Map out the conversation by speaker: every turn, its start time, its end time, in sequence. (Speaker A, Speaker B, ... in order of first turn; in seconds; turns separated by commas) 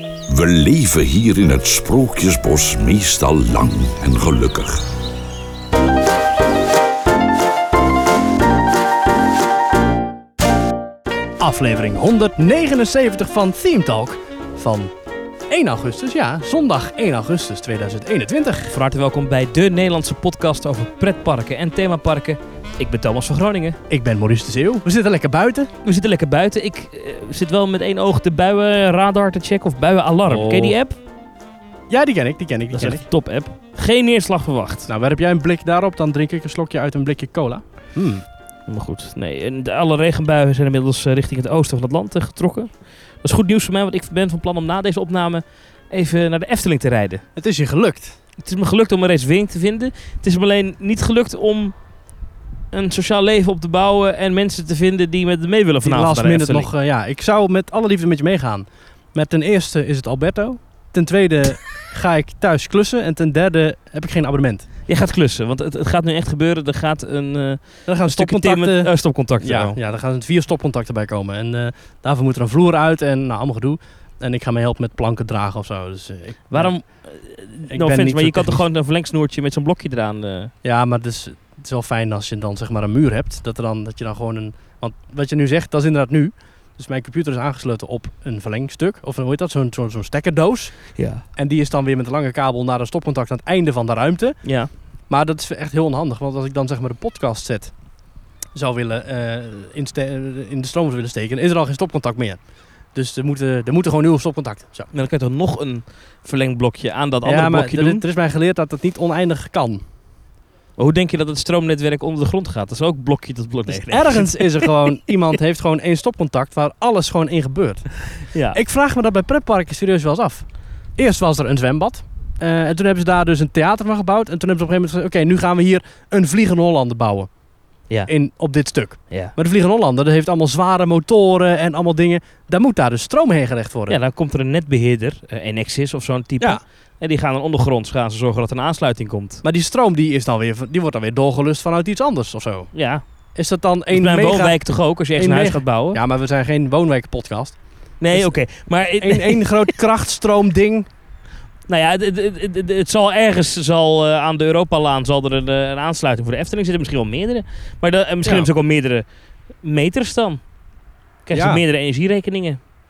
Speaker A: 0.3-4.9, Speaker B: 11.4-14.9, Speaker B: 15.5-18.7, Speaker C: 18.7-23.8, Speaker B: 23.9-25.7, Speaker C: 25.8-31.0, Speaker B: 30.3-30.8, Speaker B: 31.9-33.0, Speaker C: 32.7-34.9, Speaker B: 34.9-38.2, Speaker C: 38.7-47.2, Speaker B: 47.4-48.1, Speaker C: 48.4-51.7, Speaker C: 52.7-56.7, Speaker B: 55.8-64.7, Speaker C: 64.9-69.8, Speaker B: 67.8-76.7, Speaker C: 76.5-80.5, Speaker B: 77.7-78.6, Speaker B: 80.6-94.4, Speaker C: 91.0-91.2, Speaker C: 94.4-94.7, Speaker B: 95.1-97.7, Speaker B: 98.5-102.4, Speaker B: 102.9-104.9, Speaker C: 104.9-108.0, Speaker B: 107.2-109.8, Speaker C: 110.8-114.8, Speaker B: 113.7-118.0, Speaker C: 118.3-118.6, Speaker B: 118.5-127.3, Speaker B: 128.1-134.0, Speaker C: 133.9-139.4, Speaker B: 139.4-142.7, Speaker C: 142.7-143.0, Speaker B: 143.3-144.6, Speaker C: 143.9-146.0, Speaker B: 145.1-147.6, Speaker C: 148.0-149.5, Speaker B: 149.0-150.9, Speaker C: 151.7-159.0, Speaker C: 159.6-160.4, Speaker C: 161.2-162.6, Speaker B: 161.3-161.6